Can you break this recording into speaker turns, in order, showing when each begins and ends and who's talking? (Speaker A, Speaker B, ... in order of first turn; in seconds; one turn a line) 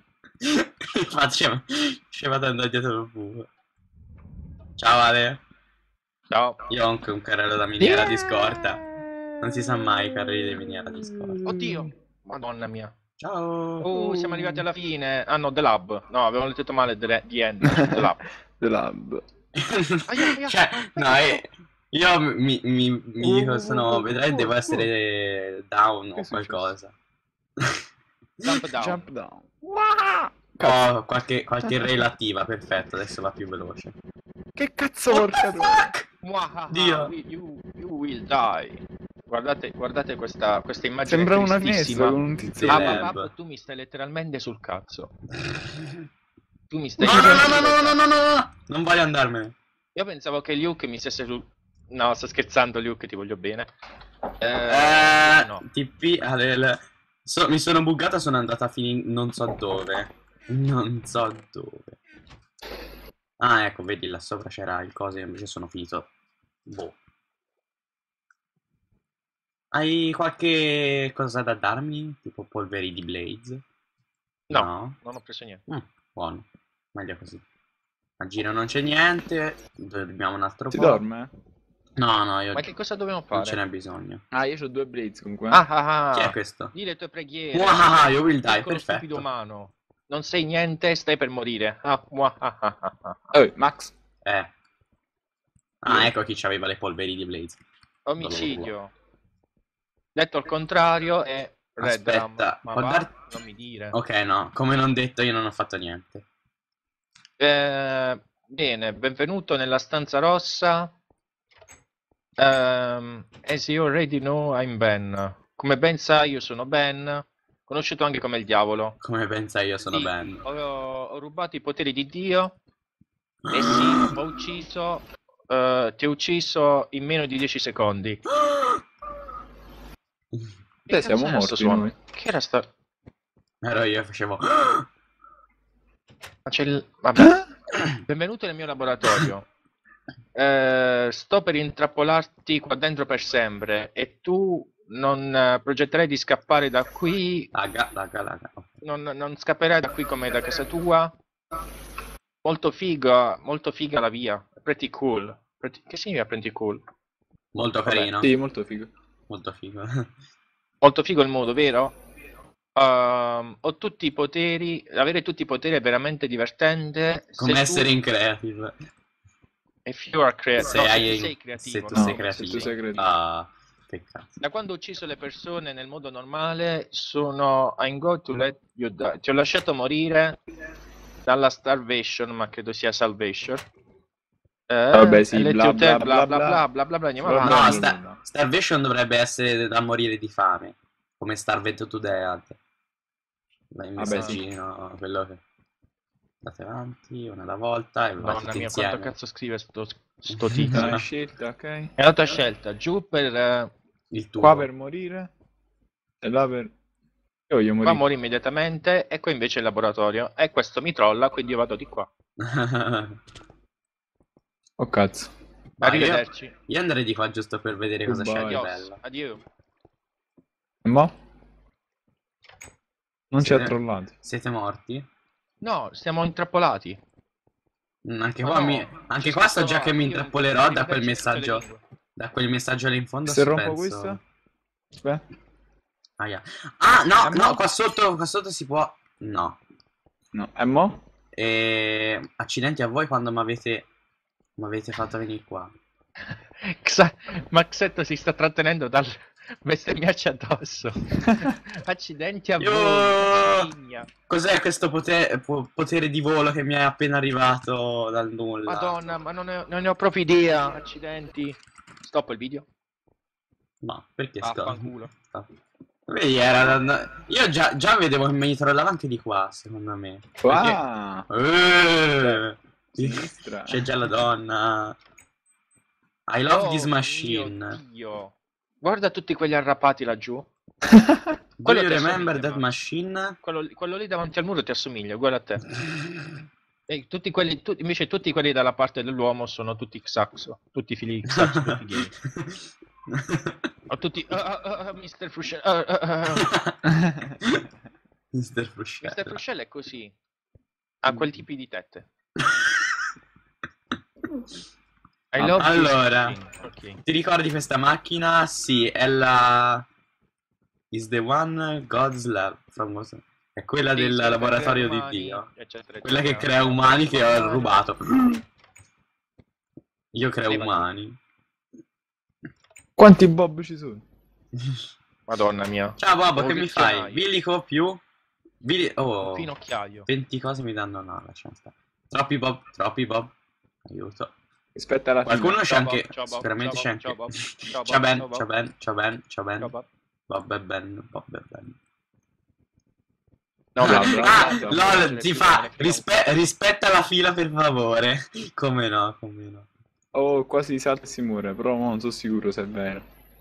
Speaker A: 0.4-3.5
Speaker A: 4.8-5.4
Speaker B: 6.3-6.6
Speaker A: 6.7-8.8
Speaker C: 7.8-8.6
Speaker A: 9.4-11.4
Speaker B: 11.4-12.9
Speaker A: 13.2-13.9
Speaker B: 13.8-18.2
Speaker C: 14.0-14.6
Speaker C: 17.6-18.1
Speaker C: 18.6-19.2
Speaker A: 19.6-26.9
Speaker B: 20.1-21.4
Speaker C: 23.2-24.9
Speaker C: 26.1-26.7
Speaker A: 27.6-27.9
Speaker B: 28.4-29.0
Speaker C: 28.8-30.9
Speaker A: 30.6-34.0
Speaker C: 34.6-36.0
Speaker A: 35.1-36.0
Speaker B: 36.2-45.1
Speaker A: 36.7-37.1
Speaker C: 41.1-43.1
Speaker A: 42.5-43.3
Speaker A: 45.7-46.0
Speaker B: 46.7-48.0
Speaker A: 47.0-49.5
Speaker B: 50.0-53.7
Speaker B: 54.4-55.6
Speaker A: 54.7-62.0
Speaker A: 63.4-66.1
Speaker A: 66.7-67.0
Speaker A: 69.7-73.6
Speaker A: 74.5-75.0
Speaker B: 74.5-75.6
Speaker A: 75.7-77.4
Speaker A: 78.2-81.0
Speaker C: 80.7-81.3
Speaker A: 82.0-82.7
Speaker B: 82.5-83.6
Speaker A: 83.3-84.2
Speaker C: 84.3-85.6
Speaker B: 85.5-93.3
Speaker A: 86.1-86.7
Speaker A: 87.5-89.2
Speaker C: 93.3-93.9
Speaker A: 94.2-94.5
Speaker A: 95.8-97.6
Speaker B: 98.1-98.9
Speaker A: 98.2-98.7
Speaker B: 100.1-104.0
Speaker A: 101.8-103.1
Speaker A: 103.9-106.2
Speaker B: 107.4-110.9
Speaker B: 112.4-119.0
Speaker A: 119.0-120.4
Speaker B: 119.9-122.6
Speaker B: 123.5-128.2
Speaker A: 123.7-124.1
Speaker A: 128.4-128.8
Speaker B: 130.9-132.7
Speaker C: 130.9-131.9
Speaker A: 133.6-134.9
Speaker B: 136.5-137.4
Speaker B: 138.0-139.5
Speaker B: 140.3-147.5
Speaker A: 147.5-148.7
Speaker B: 148.8-151.1
Speaker B: 152.4-156.8
Speaker A: 157.5-158.3
Speaker C: 158.2-158.9
Speaker A: 159.3-160.1
Speaker B: 160.8-161.9
Speaker B: 162.8-167.9
Speaker A: 167.4-168.8
Speaker B: 169.8-172.9
Speaker A: 170.6-174.4
Speaker C: 171.9-173.1
Speaker B: 174.4-180.4
Speaker B: 181.2-183.7
Speaker B: 184.7-187.9
Speaker C: 184.9-186.7
Speaker C: 187.2-188.2
Speaker A: 187.4-192.6
Speaker A: 193.7-195.4
Speaker C: 194.0-194.4
Speaker B: 194.1-194.4
Speaker A: 196.4-199.1
Speaker B: 198.2-201.0
Speaker A: 200.3-201.1
Speaker C: 200.7-201.9
Speaker B: 202.0-203.7
Speaker A: 204.1-204.7
Speaker C: 204.4-205.3
Speaker C: 206.2-206.7
Speaker C: 207.5-208.0
Speaker B: 207.8-212.1
Speaker A: 212.4-213.2
Speaker C: 214.8-215.3
Speaker B: 215.8-216.5
Speaker A: 215.8-219.0
Speaker C: 218.1-218.6
Speaker B: 218.4-219.4
Speaker C: 220.8-221.1
Speaker C: 223.3-224.1
Speaker A: 223.4-225.1
Speaker B: 225.6-227.0
Speaker A: 228.0-231.7
Speaker B: 228.4-231.8
Speaker A: 232.2-234.2
Speaker C: 233.2-234.2
Speaker C: 235.0-235.2
Speaker A: 236.2-239.6
Speaker B: 237.2-237.6
Speaker C: 240.3-241.0
Speaker A: 241.3-243.9
Speaker A: 244.6-245.7
Speaker B: 246.6-254.1
Speaker A: 252.6-253.7
Speaker A: 254.3-259.0
Speaker B: 258.7-262.6
Speaker A: 263.8-265.5
Speaker B: 264.4-265.1
Speaker A: 266.1-270.5
Speaker C: 270.4-271.3
Speaker B: 270.5-270.8
Speaker A: 271.3-275.0
Speaker C: 272.2-273.9
Speaker A: 276.3-277.8
Speaker B: 276.5-280.5
Speaker A: 281.6-283.4
Speaker B: 281.6-282.7
Speaker B: 283.4-285.7
Speaker B: 286.9-292.1
Speaker A: 291.3-293.6
Speaker B: 293.9-296.5
Speaker A: 296.4-296.8
Speaker C: 296.8-297.4
Speaker A: 298.3-299.4
Speaker B: 299.0-300.1
Speaker B: 301.0-302.1
Speaker A: 302.4-303.1
Speaker B: 305.3-307.0
Speaker A: 305.4-306.4
Speaker A: 307.0-309.9
Speaker A: 310.9-315.5
Speaker B: 313.9-317.8
Speaker A: 316.0-318.4
Speaker A: 320.1-321.2
Speaker B: 320.5-320.9
Speaker C: 323.0-324.0
Speaker A: 324.6-324.8
Speaker B: 325.3-327.3
Speaker A: 326.0-328.0
Speaker A: 328.6-329.5
Speaker B: 329.2-330.1
Speaker A: 330.1-333.3
Speaker A: 333.8-334.3
Speaker C: 334.8-335.6
Speaker A: 335.2-339.7
Speaker B: 335.6-338.5
Speaker B: 339.6-339.9
Speaker A: 340.3-341.8
Speaker B: 343.8-346.3
Speaker C: 343.8-345.1
Speaker A: 343.8-349.7
Speaker C: 350.1-353.0